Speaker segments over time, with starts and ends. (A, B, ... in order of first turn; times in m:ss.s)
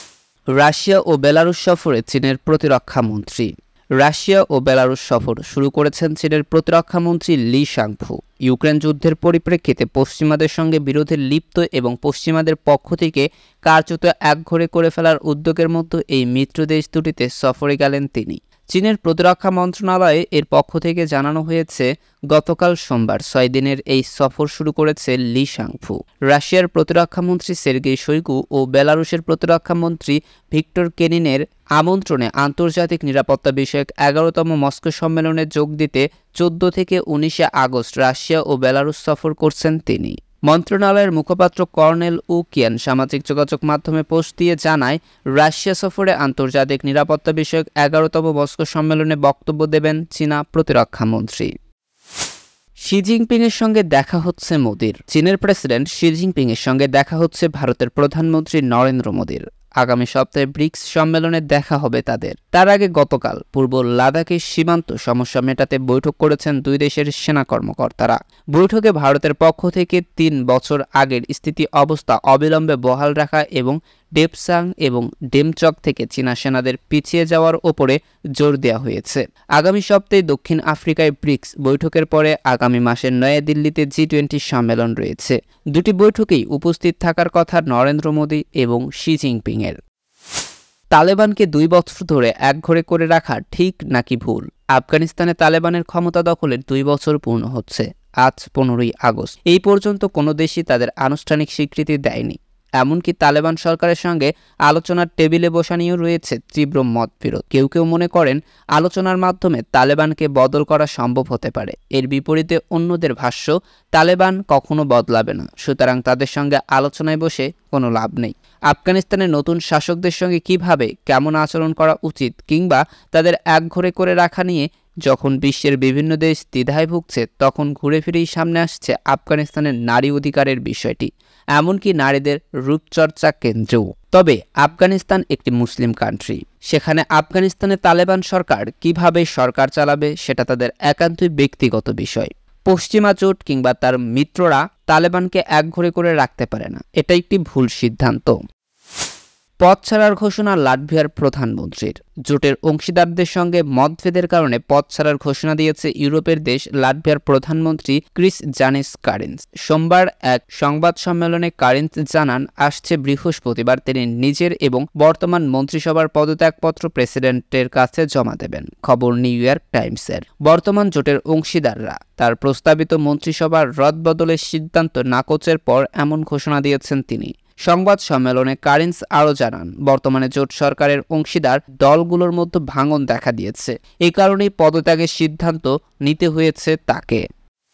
0:00.6-0:51.5 A
0:52.8-1:29.8 A
1:31.0-2:28.4 A
2:29.6-3:07.2 A